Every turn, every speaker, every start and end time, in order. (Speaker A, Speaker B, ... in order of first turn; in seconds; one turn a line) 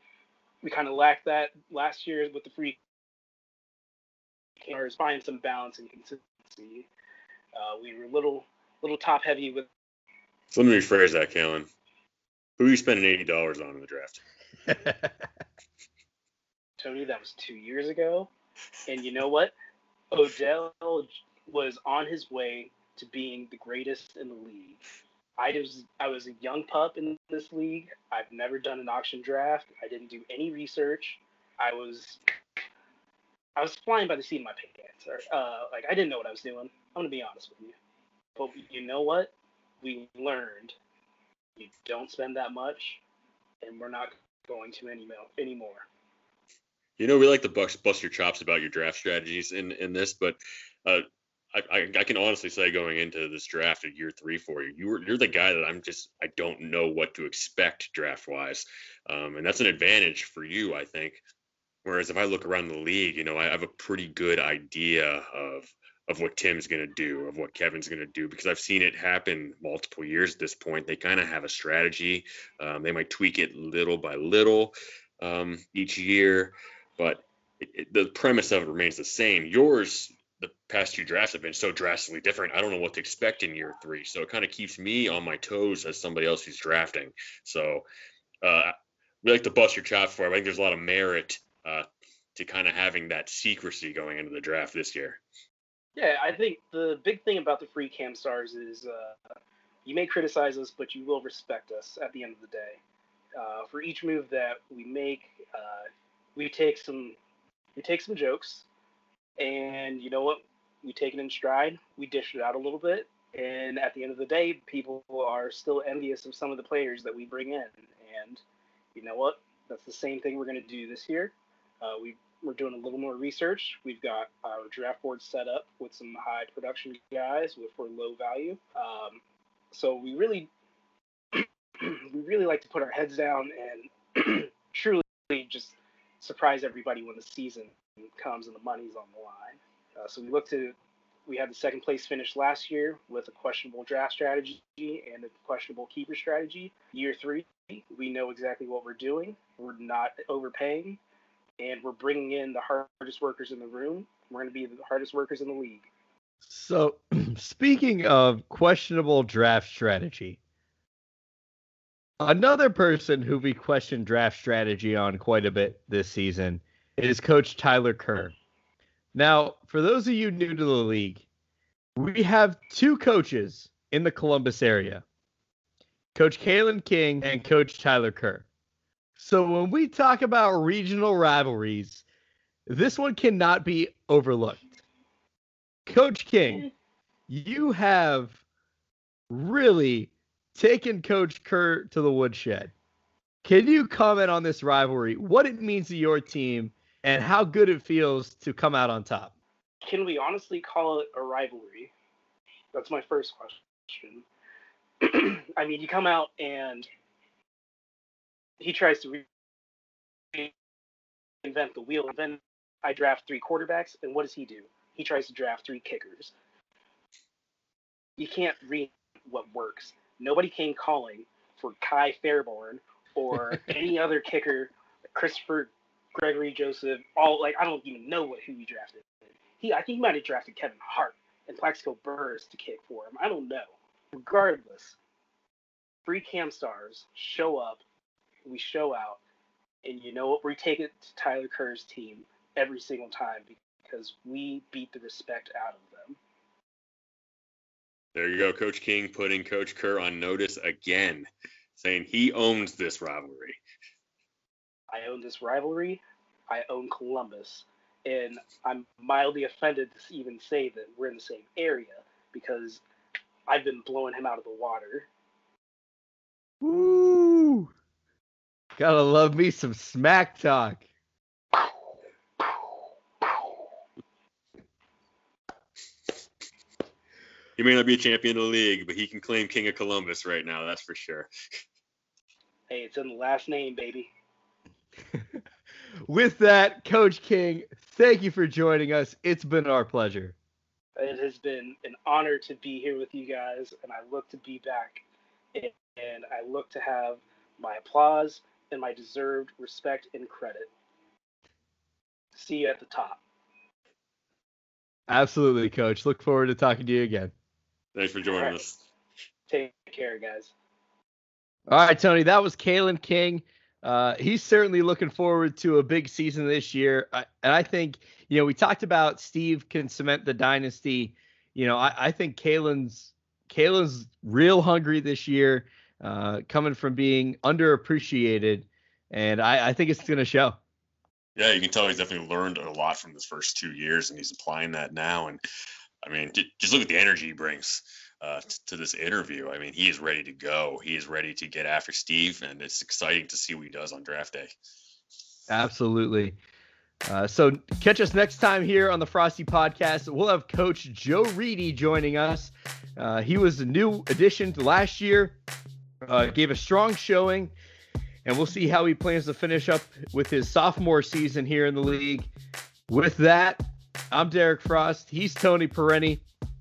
Speaker A: 0.6-2.8
Speaker A: 4.6-6.9
Speaker A: 7.5-9.7
Speaker B: 10.5-11.7
Speaker B: 12.6-14.2
Speaker C: 14.7-15.0
Speaker A: 16.8-18.3
Speaker A: 18.9-19.5
Speaker A: 20.1-24.8
Speaker A: 25.4-32.3
Speaker A: 33.5-37.7
Speaker A: 38.4-40.8
Speaker A: 41.6-43.0
Speaker A: 43.6-45.9
Speaker B: 47.0-61.2
Speaker B: 61.8-87.8
Speaker B: 88.4-95.2
Speaker A: 96.0-99.2
Speaker A: 99.8-102.8
Speaker A: 103.3-107.2
Speaker A: 107.8-108.7
Speaker A: 109.4-118.4
Speaker A: 118.9-129.2
Speaker A: 129.7-130.5
Speaker A: 131.3-140.7
Speaker A: 141.2-151.0
Speaker A: 151.6-155.8
Speaker C: 156.4-160.4
Speaker C: 162.2-168.3
Speaker C: 169.1-171.2
Speaker C: 171.9-175.0
Speaker C: 176.1-178.4
Speaker C: 179.2-182.0
Speaker C: 182.7-184.8
Speaker C: 185.9-186.7
Speaker C: 187.3-188.4
Speaker C: 189.3-192.7
Speaker C: 193.4-199.3
Speaker A: 199.8-201.9
Speaker A: 202.7-204.2
Speaker A: 205.0-206.9
Speaker A: 208.6-209.2
Speaker A: 211.4-216.3
Speaker A: 218.2-235.0
Speaker A: 236.0-237.8
Speaker A: 238.4-239.2
Speaker A: 239.8-246.2
Speaker B: 248.1-253.6
Speaker A: 254.9-262.8
Speaker A: 263.5-265.1
Speaker C: 266.6-267.7
Speaker C: 268.8-270.8
Speaker B: 277.6-281.3
Speaker A: 282.7-284.1
Speaker C: 286.1-290.3
Speaker A: 290.9-300.7
Speaker A: 302.3-303.2
Speaker C: 305.1-307.3
Speaker B: 307.9-308.8
Speaker A: 308.3-308.5
Speaker A: 309.5-310.5
Speaker C: 311.7-330.6
Speaker B: 331.4-335.4
Speaker B: 336.0-344.6
Speaker C: 345.5-346.4
Speaker C: 347.1-355.4
Speaker C: 356.0-357.5
Speaker C: 358.2-362.3
Speaker C: 362.9-366.2